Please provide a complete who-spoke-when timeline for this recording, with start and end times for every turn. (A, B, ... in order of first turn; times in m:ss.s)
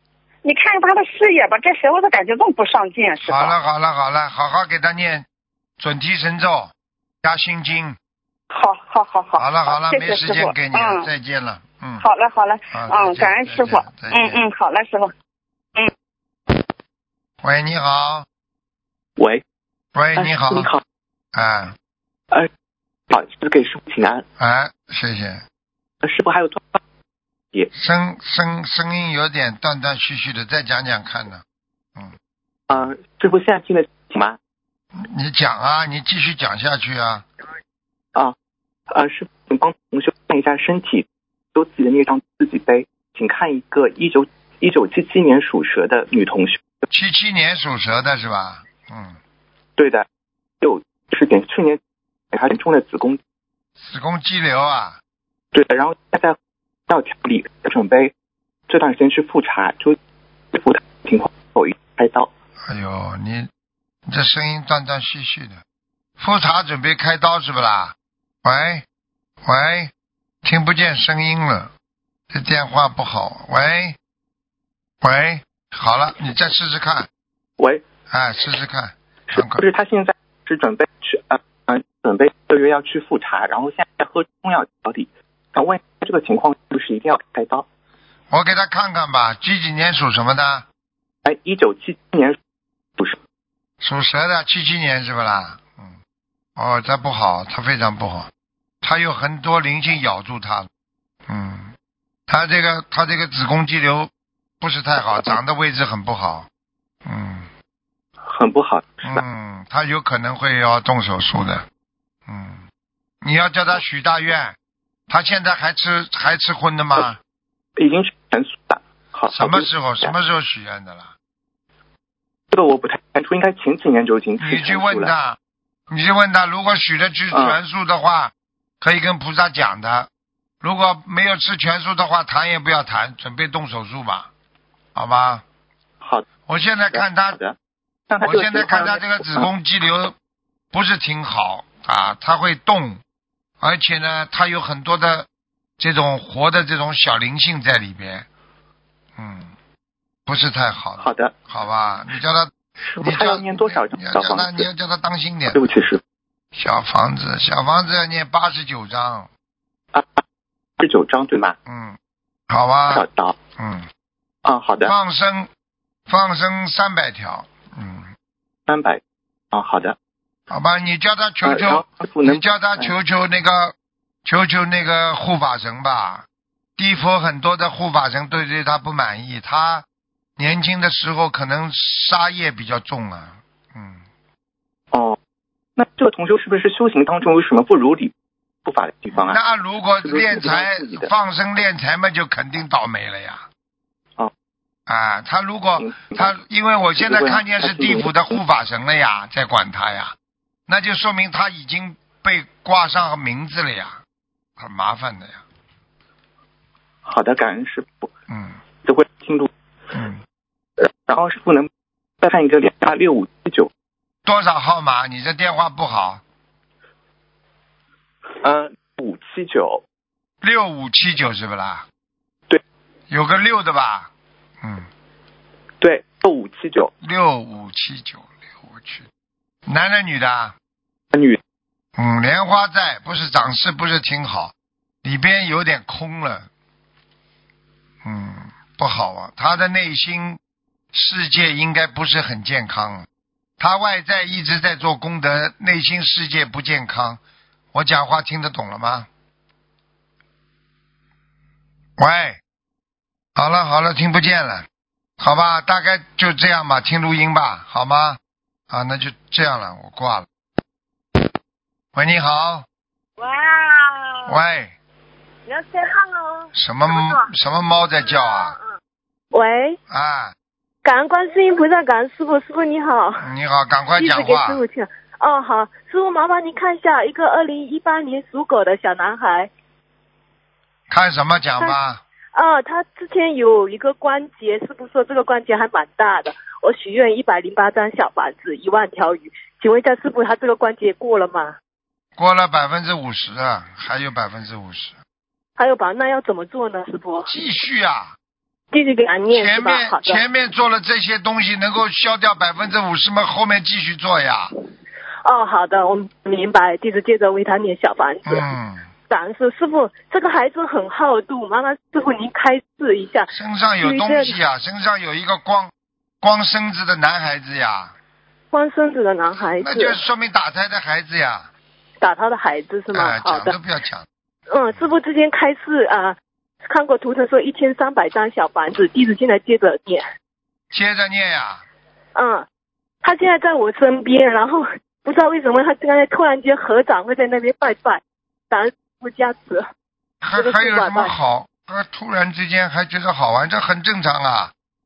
0:00.4-0:03.6 A
0:03.2-0:05.3 B
0:05.8-0:06.7 B
0:07.2-0:08.0 B
0:08.5-0:11.1 A
0:09.4-0:12.1 B
0:12.0-0:15.1 A
0:12.7-0:14.4 B
0:17.4-0:18.3 B
0:19.2-0:19.4 C
0:20.0-0:20.7 B
0:20.2-0:20.8 C
0:21.4-0:21.8 B
0:23.1-0:24.2 C
0:24.4-0:25.4 B
0:26.0-0:26.8 C
0:27.7-0:31.4 B
0:32.7-0:34.4 C
0:35.0-0:37.3 B
0:38.9-0:46.6 C
0:46.9-0:49.2 B
0:49.8-0:50.1 C
0:50.6-0:51.8 C
0:52.3-0:53.2 C
0:53.8-0:55.0 B
0:55.5-0:56.4 C
0:56.9-0:58.1 C
0:58.7-1:00.0 C
1:00.5-1:02.3 C
1:02.7-1:03.5 B
1:04.1-1:05.6 B
1:06.2-1:08.8 B
1:09.4-1:09.9 B
1:10.4-1:11.7 B
1:12.3-1:14.0 B
1:15.0-1:17.1 B
1:17.6-1:17.8 C
1:18.1-1:19.6 B
1:19.3-1:27.7 C
1:28.3-1:30.7 B
1:31.2-1:32.4 C
1:33.8-1:36.0 B
1:36.6-1:38.3 B
1:38.8-1:40.7 B
1:41.3-1:41.7 B
1:42.3-1:44.1 B
1:44.6-1:46.5 B
1:47.1-1:47.5 B
1:48.2-1:49.2 C
1:49.0-1:51.6 B
1:52.3-1:52.6 B
1:53.2-1:54.6 B
1:55.1-1:57.2 B
1:57.8-2:00.1 C
1:59.3-2:01.1 B
2:02.5-2:05.1 C
2:04.4-2:05.4 B
2:05.9-2:10.1 B
2:07.3-2:07.6 C
2:10.6-2:14.3 B
2:15.0-2:15.4 B
2:16.0-2:16.3 C
2:16.5-2:17.4 B
2:16.8-2:17.6 C
2:18.1-2:19.5 C
2:18.2-2:20.2 B
2:20.7-2:23.0 B
2:23.6-2:25.3 B
2:25.8-2:28.3 B
2:29.2-2:29.5 B
2:30.3-2:35.7 B
2:31.0-2:31.4 C
2:32.9-2:34.7 C
2:35.5-2:36.0 C
2:36.6-2:39.3 B
2:39.9-2:40.2 C
2:40.8-2:41.6 C
2:41.6-2:42.0 B
2:42.5-2:43.1 B
2:42.9-2:43.4 C
2:43.6-2:43.9 B
2:44.4-2:44.9 C
2:44.8-2:45.5 B
2:46.1-2:48.1 B
2:48.7-2:49.0 C
2:49.5-2:50.0 C
2:50.5-2:53.7 B
2:51.4-2:52.9 C
2:54.2-2:56.3 B
2:56.8-2:59.9 B
3:00.4-3:04.0 B
3:04.9-3:05.2 C
3:05.8-3:08.1 C
3:08.6-3:09.4 C
3:09.1-3:13.5 B
3:10.0-3:11.1 C
3:14.9-3:20.1 B
3:15.8-3:16.3 C
3:17.0-3:18.1 C
3:20.7-3:24.0 B
3:24.6-3:25.4 B
3:27.0-3:28.1 C
3:28.3-3:28.6 B
3:28.8-3:29.5 C
3:29.9-3:30.2 B
3:31.1-3:31.7 C
3:32.2-3:33.7 C
3:34.3-3:36.2 B
3:38.5-3:39.8 C
3:40.4-3:41.8 B
3:43.1-3:44.1 B
3:44.6-3:44.9 B
3:45.8-3:46.9 C
3:47.0-3:49.1 B
3:49.7-3:50.6 B
3:51.1-3:51.4 C
3:52.0-3:54.5 B
3:55.0-3:56.5 B
3:58.0-4:00.4 B
4:00.9-4:03.1 B
4:03.6-4:07.2 B
4:07.7-4:09.1 B
4:12.0-4:12.4 B
4:13.4-4:14.7 B
4:15.2-4:18.2 B
4:18.7-4:20.3 B
4:22.0-4:22.7 B
4:23.2-4:24.2 D
4:24.3-4:24.8 B
4:25.5-4:26.5 D
4:26.5-4:28.6 B
4:29.3-4:29.8 E
4:29.9-4:30.3 B
4:30.8-4:33.2 E
4:33.2-4:34.6 B
4:34.0-4:39.5 E
4:40.9-4:42.0 B
4:42.4-4:51.6 E
4:52.2-4:55.0 B
4:55.6-4:57.3 E
4:57.3-4:58.1 B
4:58.7-5:00.2 E
4:59.3-5:04.5 B
5:05.2-5:08.5 E
5:08.3-5:08.9 B
5:09.1-5:14.4 E
5:13.3-5:18.0 B
5:18.5-5:20.0 E
5:19.6-5:21.5 B
5:22.0-5:23.6 E
5:22.9-5:24.1 B
5:24.5-5:26.2 E
5:26.7-5:30.0 E
5:30.7-5:31.6 B
5:32.2-5:32.5 E
5:33.0-5:39.7 E
5:40.2-5:44.5 B
5:40.4-5:41.1 E